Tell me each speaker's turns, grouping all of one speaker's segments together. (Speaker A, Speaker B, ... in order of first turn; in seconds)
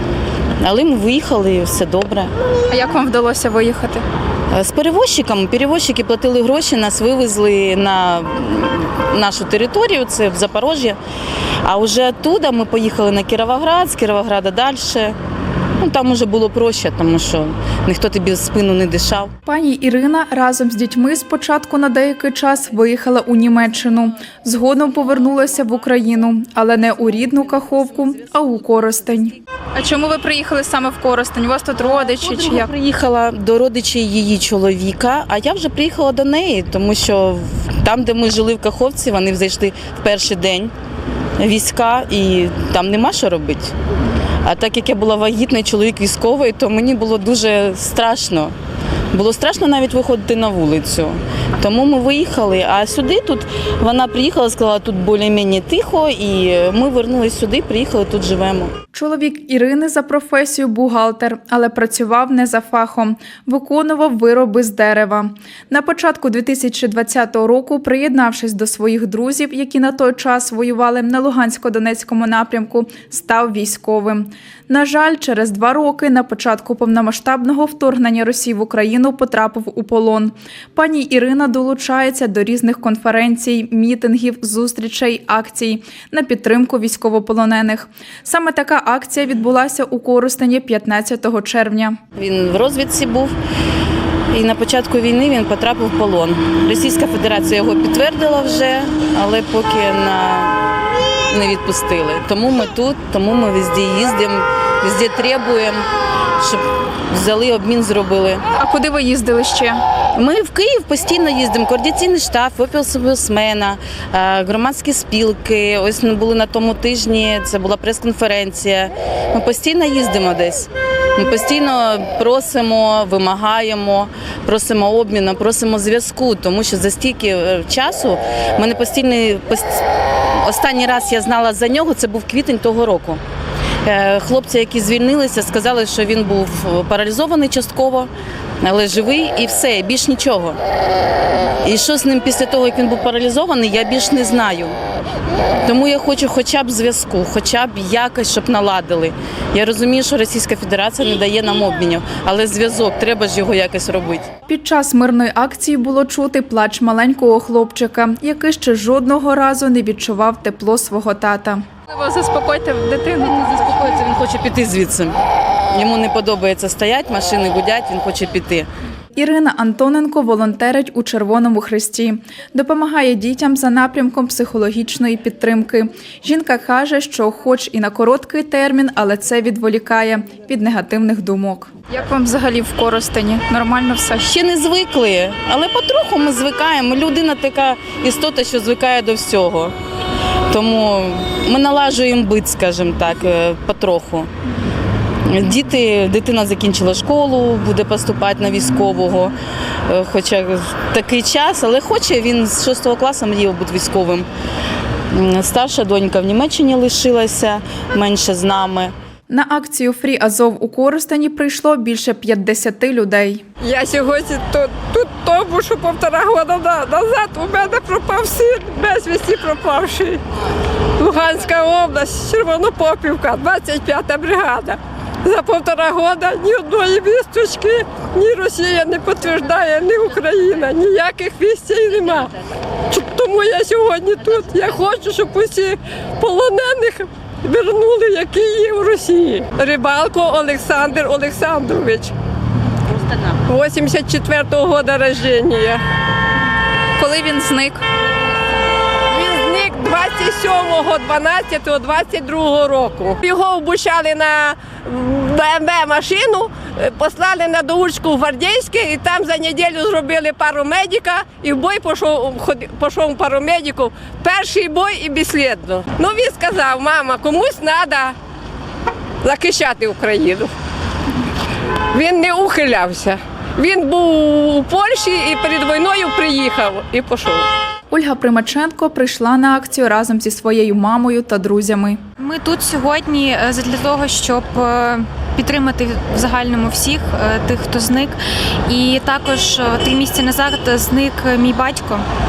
Speaker A: 0.6-2.3, 4.5-11.0, 11.6-15.2, 15.8-19.3, 31.8-40.7, 41.4-43.7, 44.4-48.5, 49.1-58.7, 92.2-93.3, 94.3-100.5, 101.3-105.9, 106.4-108.4, 110.1-133.2, 133.8-138.1, 138.6-140.6, 141.6-144.8, 145.6-154.3, 163.1-165.2, 165.7-168.7, 184.2-189.8, 190.5-194.3, 195.2-204.3, 205.1-208.9
Speaker B: 2.7-4.0, 19.5-32.7, 58.9-92.0, 108.6-109.8, 154.5-163.2, 169.2-184.2, 209.3-213.4, 247.0-247.8, 277.9-282.0
Speaker C: 213.6-220.2, 221.0-232.3, 232.9-242.1, 243.4-245.8, 249.1-268.1, 269.2-270.5, 271.9-277.5
Speaker D: 282.2-292.1